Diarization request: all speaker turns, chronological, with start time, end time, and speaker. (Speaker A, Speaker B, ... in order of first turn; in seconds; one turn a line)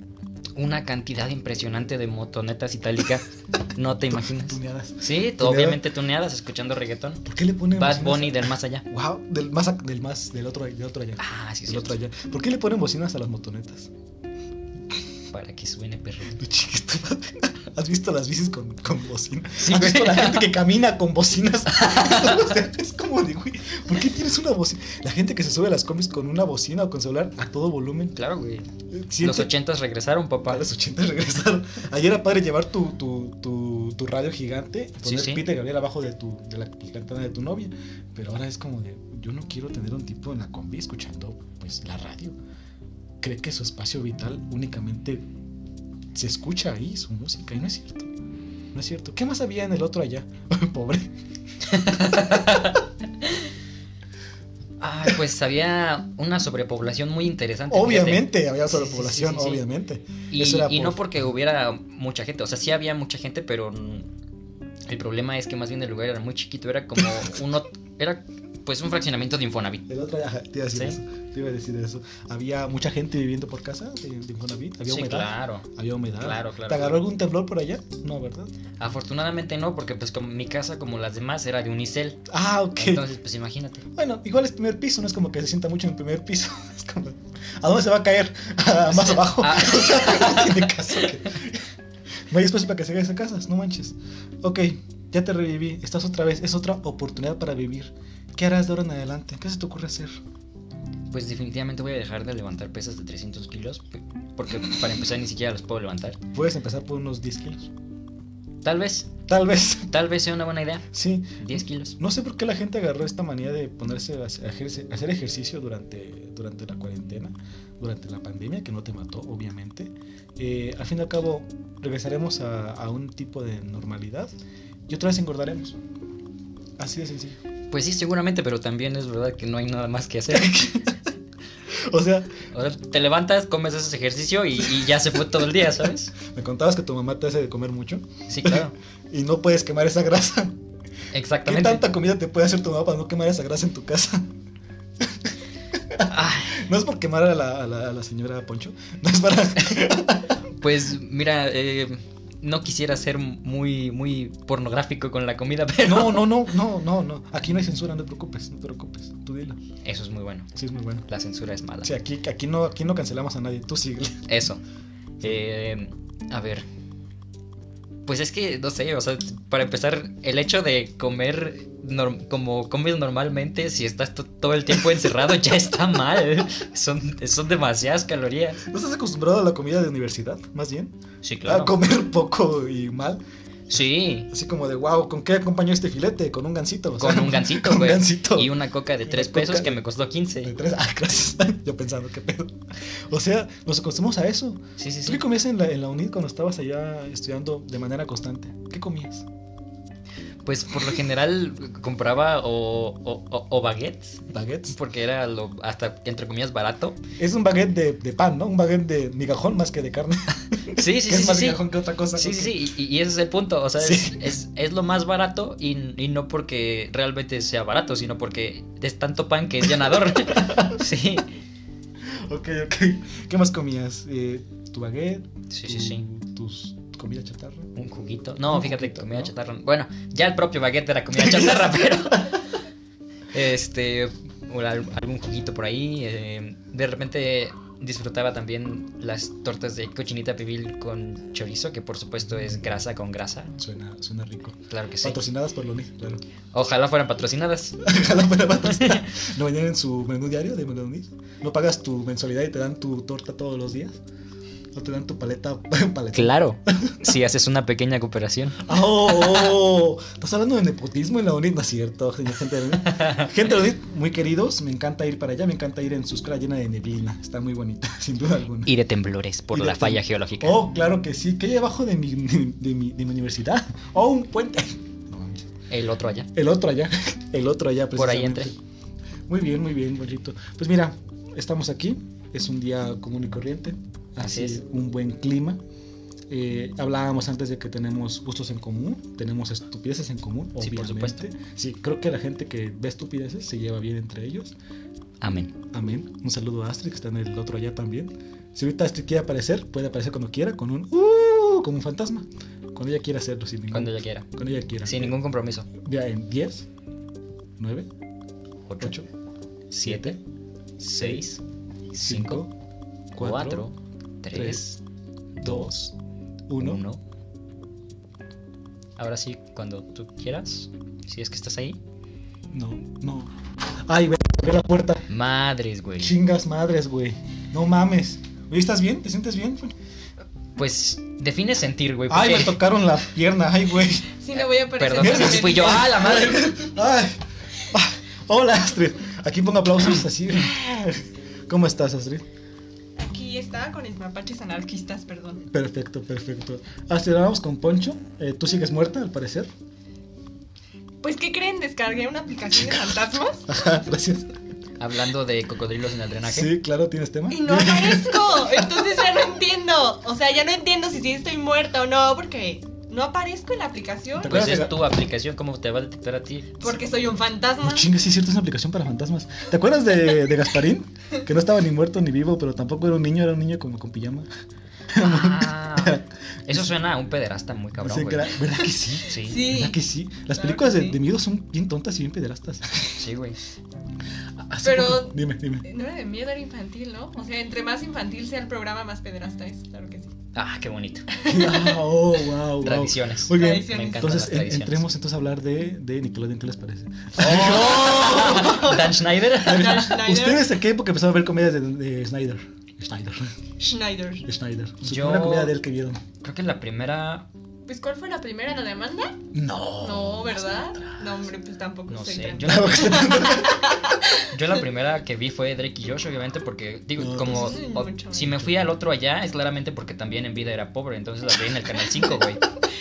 Speaker A: 0.6-7.2
Speaker B: 4.1-5.8
Speaker B: 7.2-13.9
Speaker A: 7.7-8.8
Speaker A: 11.2-11.9
Speaker A: 15.3-16.4
Speaker B: 16.3-28.2
Speaker A: 19.6-20.5
Speaker A: 21.8-22.5
Speaker A: 28.1-28.6
Speaker B: 28.9-29.5
Speaker A: 29.2-30.6
Speaker B: 30.4-42.4
Speaker A: 35.0-35.5
Speaker B: 43.2-45.3
Speaker B: 46.1-48.1
Speaker B: 48.7-51.1
Speaker A: 51.7-52.8
Speaker A: 54.8-59.6
Speaker B: 57.7-61.0
Speaker A: 60.3-64.1
Speaker A: 64.8-69.9
Speaker B: 69.9-78.5
Speaker A: 70.7-71.0
Speaker A: 74.8-75.7
Speaker A: 76.2-77.0
Speaker A: 78.8-83.8
Speaker B: 82.3-83.1
Speaker B: 83.9-91.7
Speaker A: 88.9-90.7
Speaker B: 92.3-100.2
Speaker A: 101.1-106.2
Speaker B: 106.3-107.7
Speaker A: 108.6-109.1
Speaker B: 109.3-109.9
Speaker A: 109.9-112.0
Speaker B: 110.9-124.3
Speaker B: 124.9-125.8
Speaker B: 126.8-127.4
Speaker A: 127.7-130.7
Speaker B: 130.3-130.9
Speaker B: 131.7-132.4
Speaker A: 132.5-136.1
Speaker B: 136.2-140.6
Speaker A: 138.3-138.7
Speaker A: 141.1-141.8
Speaker B: 141.4-144.3
Speaker B: 145.0-150.3
Speaker A: 146.0-146.6
Speaker A: 150.6-156.5
Speaker B: 155.8-159.6
Speaker A: 159.8-160.5
Speaker B: 160.5-161.1
Speaker A: 161.1-161.9
Speaker B: 161.8-164.2
Speaker A: 164.3-164.6
Speaker A: 165.2-166.7
Speaker A: 168.1-178.6
Speaker B: 178.6-183.2
Speaker A: 181.2-181.8
Speaker A: 183.7-184.3
Speaker B: 184.3-189.8
Speaker A: 187.0-190.5
Speaker B: 190.3-199.2
Speaker A: 194.8-195.2
Speaker A: 200.4-207.0
Speaker B: 204.3-204.7
Speaker B: 207.2-212.6
Speaker A: 210.7-211.6
Speaker A: 212.1-221.3
Speaker B: 213.8-214.3
Speaker B: 220.1-220.8
Speaker B: 222.1-227.7
Speaker A: 225.5-226.0
Speaker A: 227.7-232.4
Speaker B: 228.4-229.3
Speaker B: 231.2-232.3
Speaker A: 233.3-243.6
Speaker B: 243.6-246.2
Speaker A: 244.7-245.2
Speaker A: 246.5-247.8
Speaker B: 247.8-254.0
Speaker B: 254.7-257.1
Speaker A: 256.1-259.4
Speaker B: 258.6-268.7
Speaker A: 268.6-270.6
Speaker B: 269.5-275.5
Speaker A: 275.7-276.3
Speaker B: 276.3-278.6
Speaker A: 277.9-278.5
Speaker B: 279.3-285.6
Speaker A: 284.2-284.6
Speaker B: 286.3-294.5
Speaker A: 290.6-291.2
Speaker A: 295.2-295.6
Speaker B: 295.7-305.2
Speaker A: 303.7-304.3
Speaker A: 304.8-305.7
Speaker B: 305.7-306.7
Speaker B: 307.6-307.9
Speaker A: 308.7-309.0
Speaker B: 308.8-309.1
Speaker A: 309.7-310.2
Speaker B: 309.8-310.2
Speaker A: 310.8-311.4
Speaker B: 310.9-311.2
Speaker A: 311.9-312.4
Speaker B: 312.0-312.5
Speaker B: 313.1-313.7
Speaker A: 313.1-314.8
Speaker B: 314.3-314.6
Speaker A: 315.4-315.7
Speaker B: 315.4-315.9
Speaker B: 316.5-316.8
Speaker A: 316.6-317.0
Speaker A: 319.0-321.8
Speaker B: 322.5-323.3
Speaker B: 323.9-325.1
Speaker A: 325.1-326.1
Speaker B: 326.0-329.7
Speaker A: 330.6-332.6
Speaker B: 332.1-334.1
Speaker C: 334.2-336.3
Speaker A: 334.3-336.6
Speaker B: 334.9-342.2
Speaker C: 343.0-345.4
Speaker B: 345.5-349.5
Speaker C: 351.0-353.4
Speaker B: 352.6-352.8
Speaker B: 353.4-354.4
Speaker A: 354.8-356.5
Speaker B: 356.2-358.7
Speaker C: 357.3-364.6
Speaker B: 364.2-364.9
Speaker A: 364.3-366.6
Speaker C: 366.6-367.9
Speaker B: 367.6-374.3
Speaker B: 374.9-376.7
Speaker A: 374.9-378.3
Speaker B: 377.8-383.0
Speaker A: 379.1-379.4
Speaker C: 379.1-379.8
Speaker C: 380.3-381.0
Speaker A: 383.0-383.4
Speaker B: 384.4-385.6
Speaker C: 384.6-390.1
Speaker A: 390.3-391.1
Speaker C: 391.1-391.9
Speaker B: 391.2-398.8
Speaker A: 392.6-394.8
Speaker C: 393.3-394.1
Speaker A: 397.1-399.9
Speaker C: 397.5-400.5
Speaker B: 399.4-403.3
Speaker C: 403.6-404.2
Speaker B: 404.2-406.0
Speaker A: 404.8-405.6
Speaker A: 406.2-407.3
Speaker C: 407.7-409.2
Speaker B: 409.3-410.9
Speaker C: 409.8-414.2
Speaker A: 411.9-413.2
Speaker B: 412.4-413.6
Speaker A: 414.3-422.4
Speaker B: 416.9-417.6
Speaker C: 417.2-418.4
Speaker B: 418.3-418.7